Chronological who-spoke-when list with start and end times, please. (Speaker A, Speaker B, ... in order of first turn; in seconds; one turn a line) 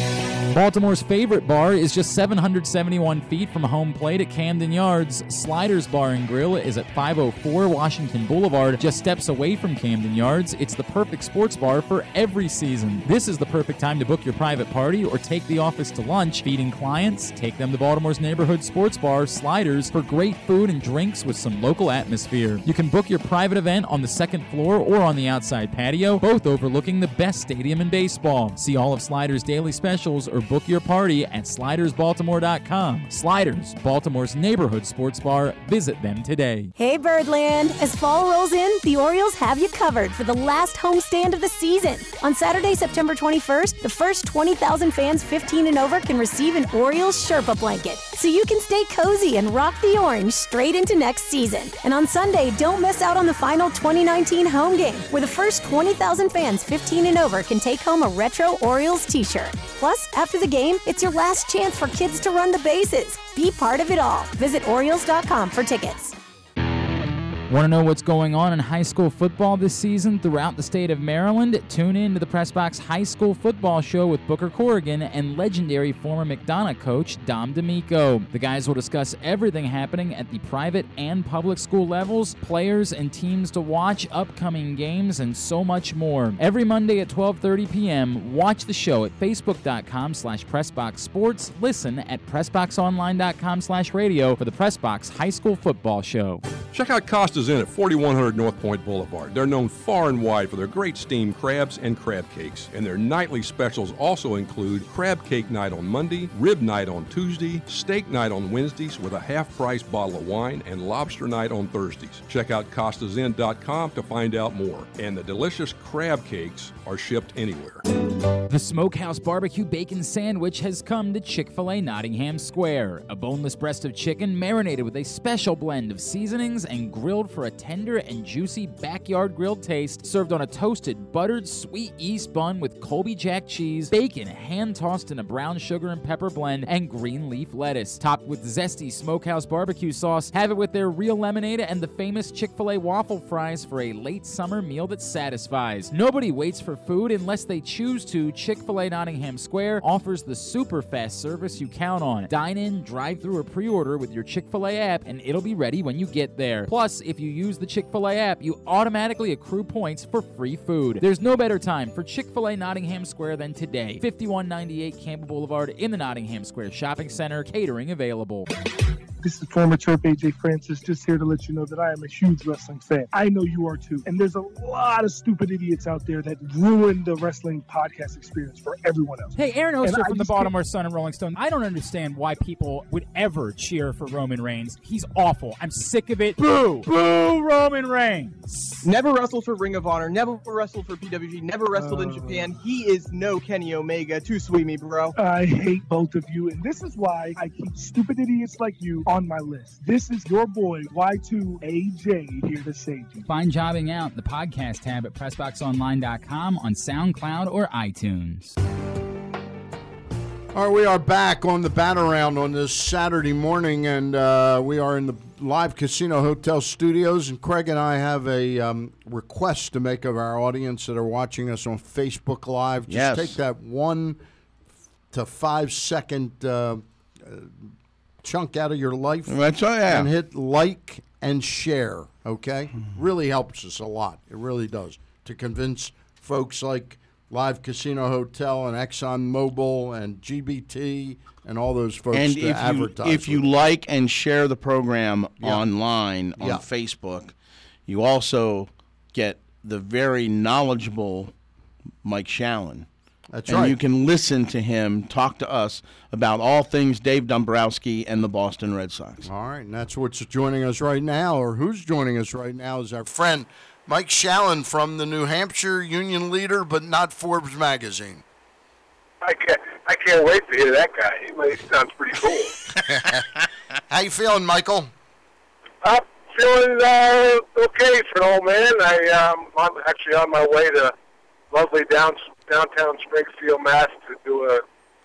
Speaker A: 0.5-36.7
Speaker B: 36.8-66.1
Speaker A: 67.5-96.5
Speaker C: 96.7-117.8
Speaker A: 118.5-168.4
Speaker D: 169.2-180.5
Speaker A: 179.4-179.8
Speaker E: 180.7-181.2
Speaker E: 181.9-183.2
Speaker E: 184.2-186.4
Speaker A: 186.6-188.3
Speaker F: 188.8-195.2
Speaker D: 195.2-203.3
Speaker A: 203.6-208.5
Speaker G: 210.5-224.2
Speaker H: 222.9-223.3
Speaker G: 225.1-243.4
Speaker H: 229.3-230.1
Speaker H: 242.1-247.3
Speaker G: 245.4-245.7
Speaker G: 246.4-246.6
Speaker H: 247.9-251.3
Speaker H: 252.0-252.9
Speaker G: 253.3-253.8
Speaker H: 253.5-259.2
Speaker G: 259.2-268.2
Speaker I: 269.2-272.6
Speaker G: 272.9-273.2
Speaker G: 273.9-274.9
Speaker I: 275.8-280.9
Speaker I: 281.5-284.6